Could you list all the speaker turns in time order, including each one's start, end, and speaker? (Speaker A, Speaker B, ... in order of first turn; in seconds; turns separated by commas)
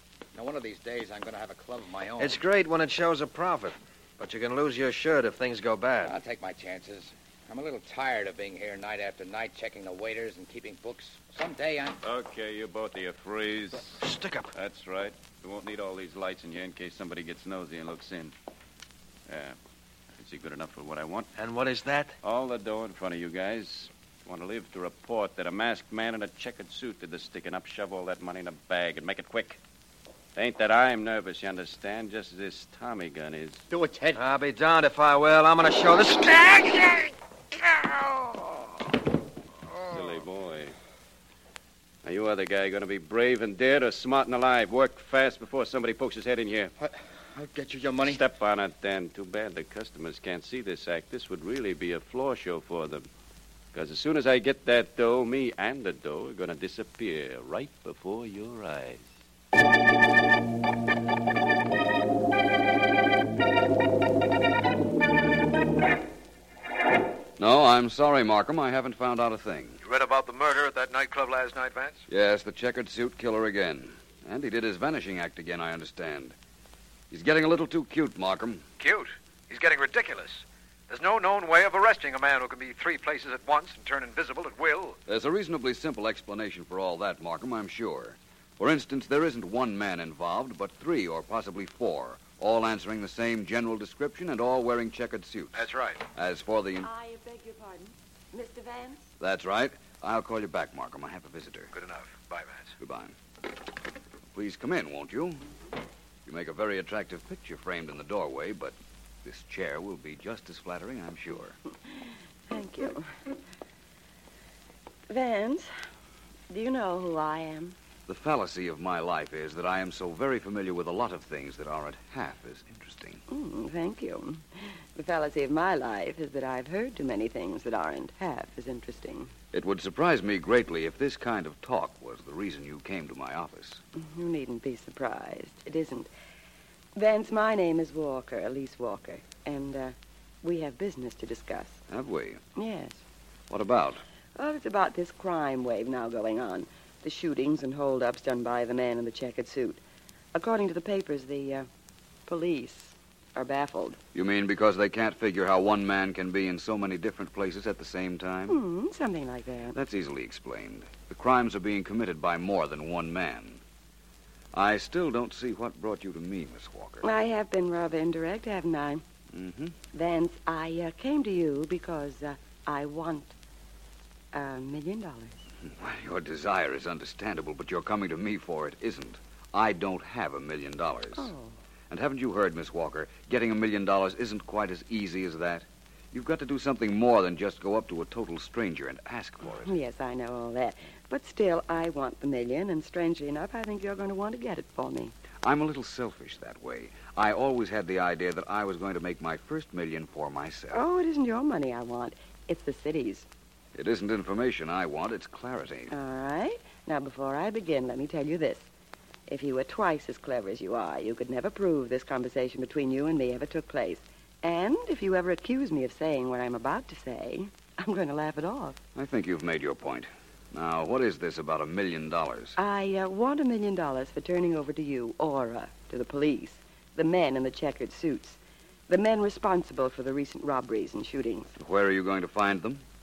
Speaker A: 0.3-2.4, Speaker B: 2.2-6.2, Speaker A: 6.0-12.0, Speaker C: 12.0-14.0, Speaker B: 14.0-14.5, Speaker C: 14.5-18.3, Speaker C: 19.3-19.6, Speaker C: 20.2-21.3, Speaker B: 21.4-22.1, Speaker C: 22.2-29.6, Speaker C: 30.4-33.7, Speaker B: 34.1-37.1, Speaker C: 39.8-40.7, Speaker C: 42.0-46.7, Speaker A: 46.8-48.2, Speaker C: 48.0-53.0, Speaker C: 53.7-59.1, Speaker D: 67.4-69.8, Speaker E: 69.8-72.0, Speaker D: 72.1-76.3, Speaker D: 77.1-78.7, Speaker E: 78.8-85.0, Speaker D: 85.1-96.9, Speaker E: 95.5-96.0, Speaker F: 96.8-99.0, Speaker D: 99.2-101.7, Speaker E: 101.7-102.7, Speaker D: 102.8-103.2, Speaker D: 104.3-105.4, Speaker D: 106.3-111.6, Speaker F: 112.5-113.1, Speaker F: 115.1-115.7, Speaker F: 116.5-117.8, Speaker D: 118.1-123.2, Speaker F: 123.3-129.3, Speaker D: 129.5-133.8, Speaker F: 133.9-136.1, Speaker F: 137.0-141.8, Speaker D: 141.9-142.4, Speaker F: 142.6-143.0, Speaker D: 143.5-144.0, Speaker F: 144.4-149.8, Speaker F: 150.3-151.7, Speaker F: 152.3-154.0, Speaker D: 154.1-158.6, Speaker F: 158.5-159.8, Speaker D: 159.7-163.6, Speaker D: 164.5-167.1, Speaker F: 167.0-169.0, Speaker D: 169.3-169.8, Speaker F: 169.9-173.3, Speaker F: 174.3-175.4, Speaker D: 175.7-181.3, Speaker F: 181.2-181.6, Speaker D: 181.9-189.7, Speaker F: 189.6-195.2, Speaker D: 195.4-200.8, Speaker F: 200.7-203.3, Speaker D: 203.8-205.9, Speaker F: 205.9-208.7, Speaker F: 209.3-218.8, Speaker D: 219.0-222.6, Speaker F: 222.6-231.5, Speaker D: 231.6-232.8